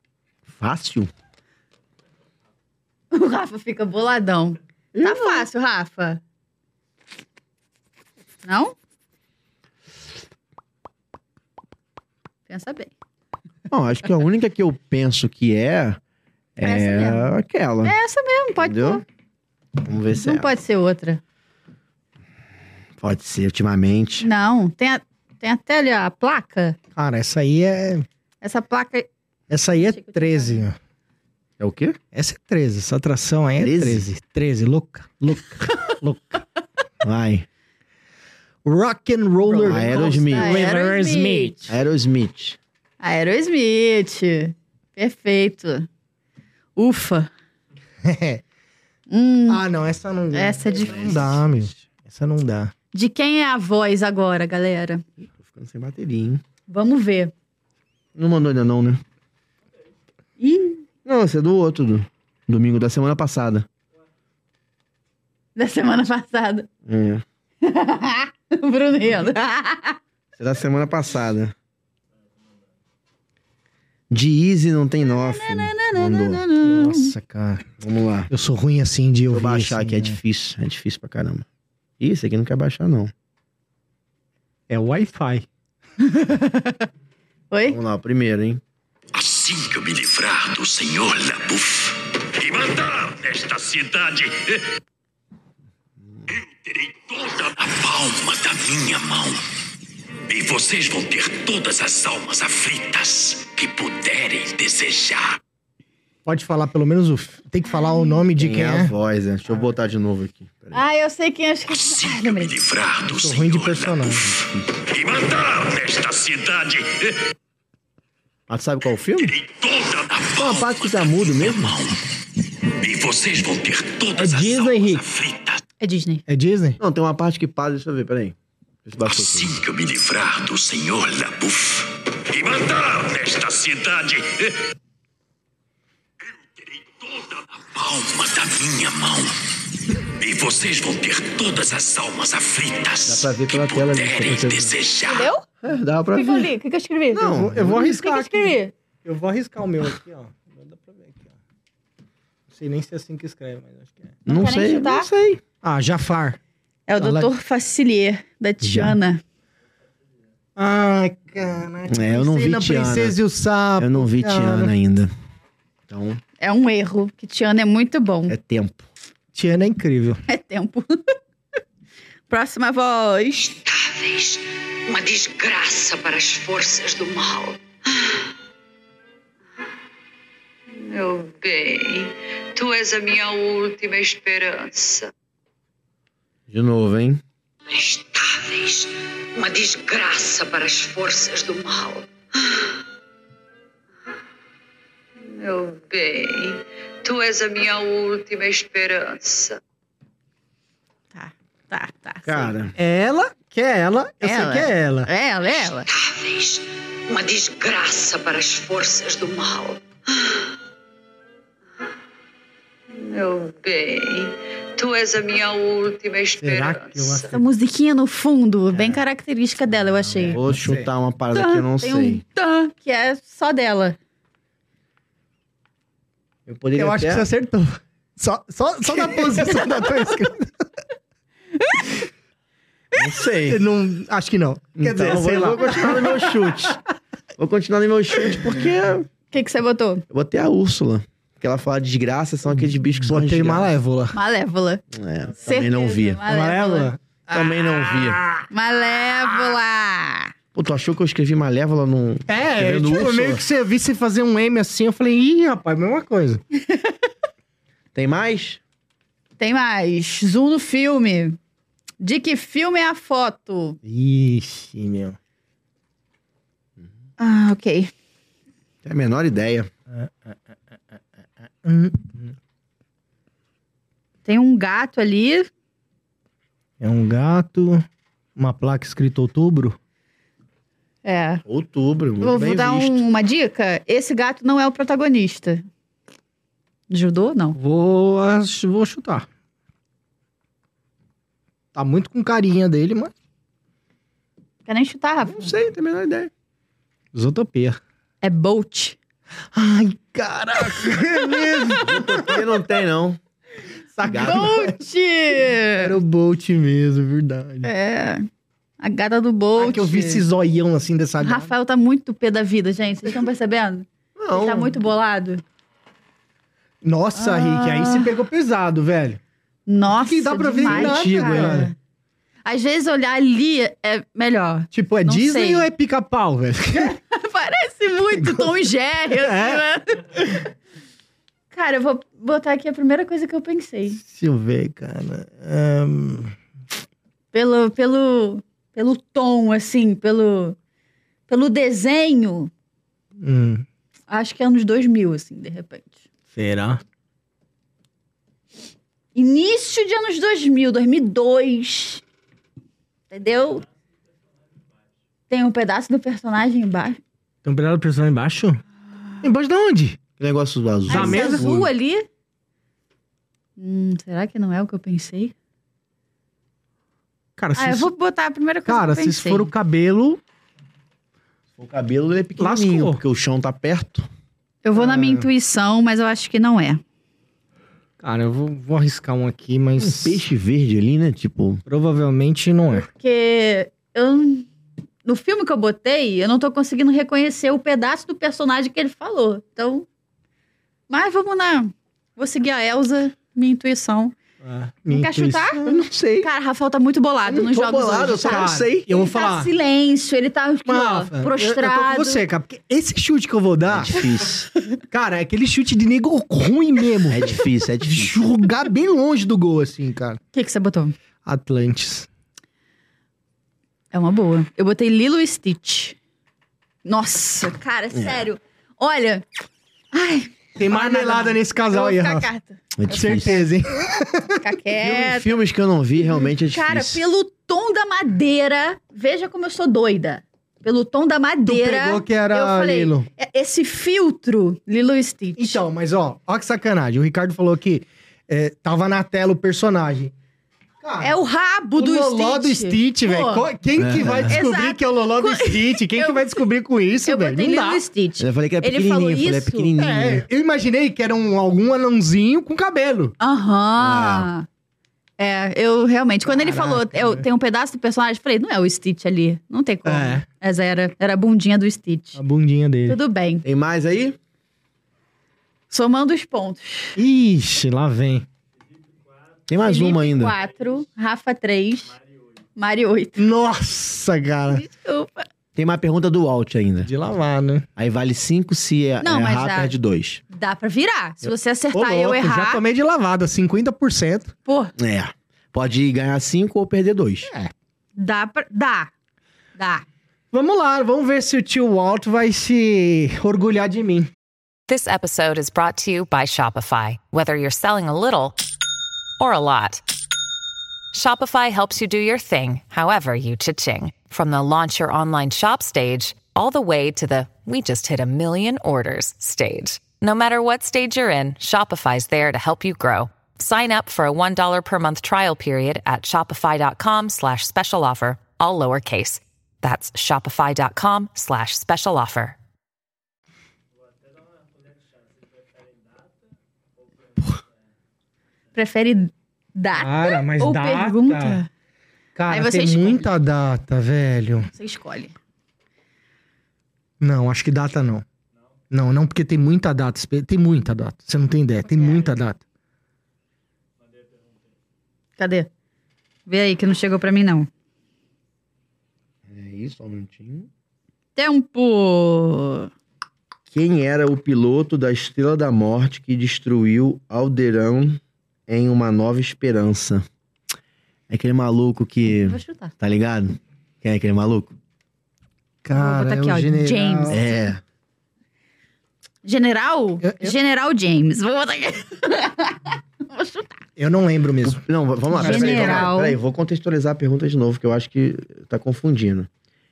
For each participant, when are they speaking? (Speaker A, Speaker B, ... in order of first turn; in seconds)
Speaker A: 0.5-1.1, 4.9-5.5, 13.7-16.0, 16.6-17.9, 18.6-19.0, 19.8-20.5, 23.0-24.3, 31.6-32.0, 33.6-34.1, 37.0-37.5, 39.6-40.6, 41.7-42.6, 55.2-56.4, 58.1-59.0, 61.0-63.7, 66.8-67.2, 70.4-71.5, 74.1-76.4, 77.8-78.3, 79.3-81.5, 82.0-83.1, 87.7-88.6, 108.4-110.8, 118.5-119.3, 120.4-121.8, 126.8-129.6, 143.1-144.7, 145.6-146.5, 147.1-147.7, 154.2-155.4, 158.7-158.9, 161.9-163.2, 163.8-165.1, 165.9-166.2, 168.3-168.9, 186.5-187.2, 202.2-202.8, 220.3-222.2, 226.4-227.3, 232.9-233.6, 234.8-236.8, 237.4-239.1, 240.1-243.7, 244.9-246.2, 247.3-248.2, 250.5-253.4, 257.9-258.6, 268.8-269.7, 281.4-283.0, 295.2-296.3, 301.8-303.2, 304.0-304.6, 314.1-314.7, 320.6-321.7, 360.2-361.7, 371.6-374.1, 379.8-381.6, 395.6-396.3, 397.2-398.9, 403.7-404.5, 407.1-408.3, 417.9-418.2, 422.8-423.4, 424.8-427.0, 443.8-444.4, 448.2-450.2, 453.8-454.3, 463.4-464.2, 469.5-470.4, 475.5-476.9, 477.8-480.2, 484.8-487.3, 549.3-550.5, 553.5-560.0, 561.1-564.5, 567.1-567.6, 574.4-579.3
Speaker B: 3.1-6.2, 8.4-8.8, 12.5-12.9, 16.6-17.3, 17.8-19.0, 20.1-21.2, 24.2-26.8, 28.4-29.1, 29.7-30.6, 39.5-41.7, 43.0-45.9, 46.8-47.3, 49.1-49.6, 50.3-51.4, 52.9-55.0, 56.7-57.3, 60.4-60.8, 65.5-66.7, 67.6-70.0, 75.1-77.1, 86.1-86.8, 87.5-87.8, 110.7-112.5, 125.8-126.2, 145.0-145.4, 146.1-148.7, 154.3-155.1, 156.9-159.2, 166.4-168.3, 170.3-170.9, 172.3-173.5, 201.1-202.5, 204.2-205.9, 217.3-220.4, 221.3-224.0, 231.6-231.9, 239.3-240.0, 244.1-244.8, 245.4-246.9, 248.5-250.3, 256.6-257.0, 259.4-261.4, 262.0-263.8, 267.2-267.9, 274.2-275.5, 281.0-281.4, 282.2-285.6, 286.9-287.6, 294.6-295.5, 298.2-299.0, 304.2-305.9, 307.6-308.3, 308.8-310.2, 311.2-315.4, 317.1-318.1, 319.7-321.7, 322.4-325.7, 326.8-330.3, 331.5-334.0, 337.3-340.6, 341.3-342.5, 344.1-346.0, 349.1-352.0, 353.1-353.6, 355.3-357.0, 360.9-362.1, 363.6-365.3, 367.6-369.5, 374.6-376.8, 382.7-384.5, 385.0-389.9, 390.9-394.1, 394.9-395.6, 396.2-402.2, 410.3-410.9, 413.9-416.0, 416.8-419.2, 419.9-423.4, 424.4-425.3, 426.0-435.6, 441.0-443.5, 444.2-446.4, 447.0-449.7, 453.2-454.4, 455.2-462.2, 462.9-463.4, 465.7-467.0, 469.6-471.9, 472.6-473.2, 474.5-475.3, 479.0-479.7, 480.3-482.6, 484.4-484.7, 488.0-488.9, 489.6-489.8, 528.5-531.5, 532.3-533.1, 534.5-535.1, 545.2-545.5, 546.3-547.5, 551.1-552.7, 562.1-562.7, 565.8-567.2, 569.2-573.6, 575.1-576.2
Speaker C: 26.9-28.1, 29.5-30.8, 32.1-36.4, 38.6-41.7, 48.0-48.4, 49.5-52.7, 76.6-77.7, 78.3-80.2, 84.7-85.5, 106.2-108.9, 113.1-114.2, 124.2-125.0, 126.3-126.8, 147.2-151.3, 152.5-154.2, 155.6-156.4, 157.0-157.3, 160.6-164.7, 169.3-170.2, 202.8-205.1, 216.4-217.4, 218.7-219.0, 219.9-220.9, 226.8-230.6, 233.5-236.8, 242.6-244.2, 246.2-248.4, 252.3-256.4, 263.8-265.2, 269.9-270.4, 271.6-272.3, 276.8-277.8, 278.4-279.8, 287.6-289.2, 291.7-293.1, 297.1-297.8, 299.5-302.2, 303.9-304.8, 305.8-307.7, 309.6-311.5, 316.8-319.2, 319.9-321.7, 324.7-326.9, 328.1-328.4, 329.1-329.6, 334.0-336.3, 343.2-343.6, 346.3-346.8, 357.4-358.6, 359.2-360.0, 360.9-361.5, 367.4-367.9, 368.6-370.2, 372.4-373.0, 374.7-375.3, 378.0-380.2, 381.7-382.9, 394.4-395.8, 398.2-399.5, 400.6-404.1, 404.9-410.2, 411.2-412.1, 420.6-422.3, 422.9-424.4, 431.4-433.1, 435.4-440.1, 440.8-441.1, 441.8-447.8, 449.8-453.1, 456.2-457.2, 459.8-460.2, 462.1-463.0, 467.0-468.2, 473.2-474.6, 476.8-477.7, 481.2-484.3, 487.2-487.5, 490.3-494.1, 529.8-531.4, 532.1-534.5, 537.0-538.0, 538.7-542.4, 565.6-567.2, 570.0-570.3, 573.8-574.6, 575.2-575.9
Speaker D: 89.1-94.7, 96.3-99.4, 100.3-105.4, 111.7-117.3, 119.2-122.0, 122.8-125.6, 129.0-134.7, 136.3-139.4, 140.2-145.3
Speaker E: 173.4-178.2, 180.7-185.1, 187.7-192.7, 195.2-199.6, 205.6-210.4, 212.9-217.3
Speaker F: 494.7-498.4, 499.2-499.8, 500.9-522.4